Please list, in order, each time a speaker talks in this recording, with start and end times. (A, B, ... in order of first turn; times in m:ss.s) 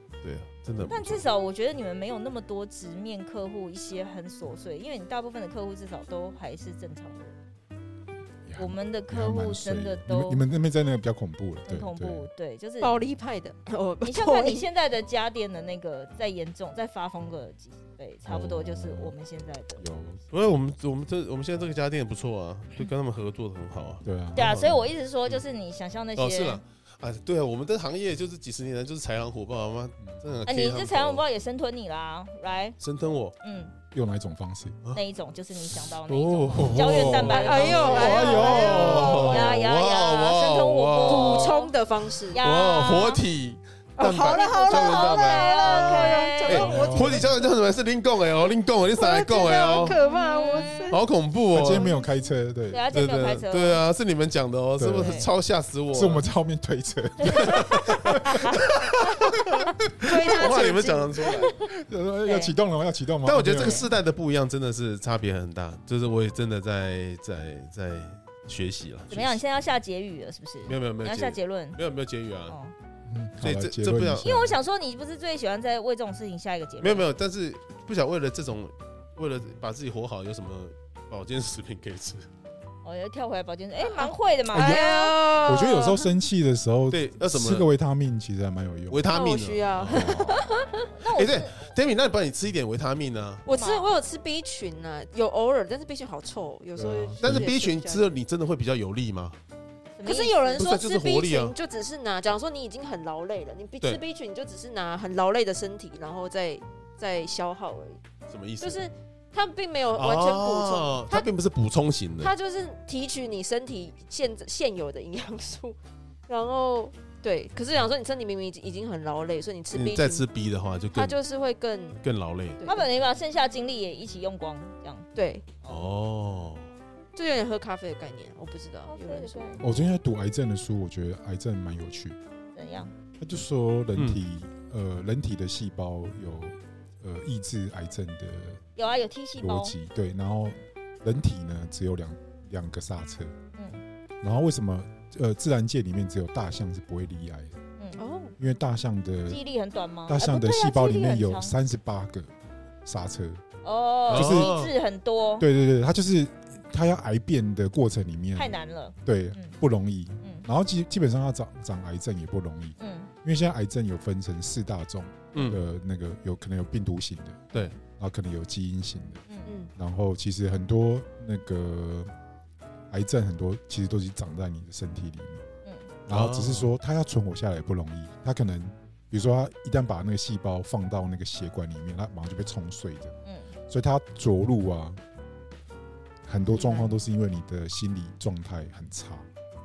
0:00.2-0:01.2 A
0:00.7-0:01.2 B
0:00.9-0:07.4 C
0:08.4-0:12.3 B
0:08.6-0:10.4 C
0:11.7-0:12.9 C
0:12.8-0:14.7 D
0:14.0-0:19.8 C
0:18.2-0:19.1 B
0:19.8-0:20.2 B
0:20.3-0:25.4 A
0:24.0-0:24.8 B
0:24.4-0:26.6 C
0:26.2-0:31.2 A
0:30.0-0:30.4 B
0:30.4-0:32.8 C
0:32.8-0:33.4 A
0:33.4-0:33.7 C
0:33.9-0:34.8 B
0:34.9-0:41.8 C
0:35.5-0:41.6 A
0:36.5-0:39.7 B
0:37.2-0:39.3 D
0:41.0-0:42.4 D
0:42.3-0:43.2 C
0:42.3-0:50.0 A
0:44.0-0:47.3 D
0:44.6-0:46.9 C
0:46.5-0:47.3 B
0:48.9-0:51.0 D
0:50.3-0:50.8 C
0:50.9-0:51.9 A
0:51.5-0:52.8 B
0:52.7-0:53.8 C
0:52.9-0:56.2 A
0:54.8-0:55.2 B
0:55.0-0:55.3 C
0:55.9-0:59.3 B
0:57.2-0:57.6 C
0:57.4-0:58.1 A
0:58.2-0:58.6 C
1:00.0-1:01.3 D
1:00.2-1:01.5 A
1:01.7-1:03.9 B
1:02.2-1:02.6 C
1:03.2-1:09.4 A
1:03.6-1:03.8 C
1:09.1-1:11.8 C
1:10.6-1:12.6 A
1:12.5-1:12.7 C
1:13.0-1:14.5 B
1:13.4-1:14.4 A
1:14.2-1:17.1 C
1:16.8-1:22.3 A
1:22.8-1:25.2 C
1:23.8-1:26.1 D
1:24.5-1:29.0 B
1:26.9-1:27.7 A
1:28.9-1:30.3 A
1:29.1-1:30.9 D
1:29.9-1:30.4 B
1:30.7-1:31.8 C
1:31.1-1:33.4 A
1:33.4-1:38.1 D
1:33.5-1:33.9 C
1:36.8-1:37.5 B
1:37.2-1:39.4 A
1:40.0-1:40.7 C
1:40.0-1:48.0 D
1:40.6-1:41.5 A
1:48.3-1:48.8 A
1:48.6-1:51.3 D
1:49.9-1:52.3 A
1:52.2-2:00.3 D
1:59.7-2:01.2 A
2:00.9-2:02.0 D
2:02.0-2:02.6 A
2:02.6-2:02.9 D
2:02.6-2:05.1 C
2:05.1-2:05.4 D
2:05.6-2:06.7 A
2:07.1-2:09.6 D
2:08.9-2:09.6 C
2:09.6-2:12.2 B
2:12.5-2:12.9 C
2:13.2-2:18.6 B
2:18.8-2:19.7 C
2:19.4-2:23.3 B
2:23.5-2:23.8 C
2:24.2-2:27.6 B
2:28.0-2:28.4 D
2:28.4-2:29.4 B
2:29.3-2:31.6 C
2:30.1-2:32.3 B
2:32.8-2:33.4 B
2:33.6-2:35.4 C
2:34.1-2:34.7 A
2:34.1-2:34.6 B
2:35.4-2:49.2 B
2:38.4-2:39.6 C
2:40.2-2:40.5 C
2:42.8-2:43.1 C
2:45.3-2:45.6 A
2:47.5-2:47.8 C
2:49.3-2:49.6 C
2:49.4-2:49.7 D
2:49.7-2:52.1 B
2:52.9-2:55.4 B
2:55.6-2:55.9 C
2:56.1-3:03.2 B
2:56.1-2:56.7 A
3:03.2-3:03.5 C
3:03.7-3:05.0 B
3:06.2-3:09.3 B
3:06.5-3:06.9 D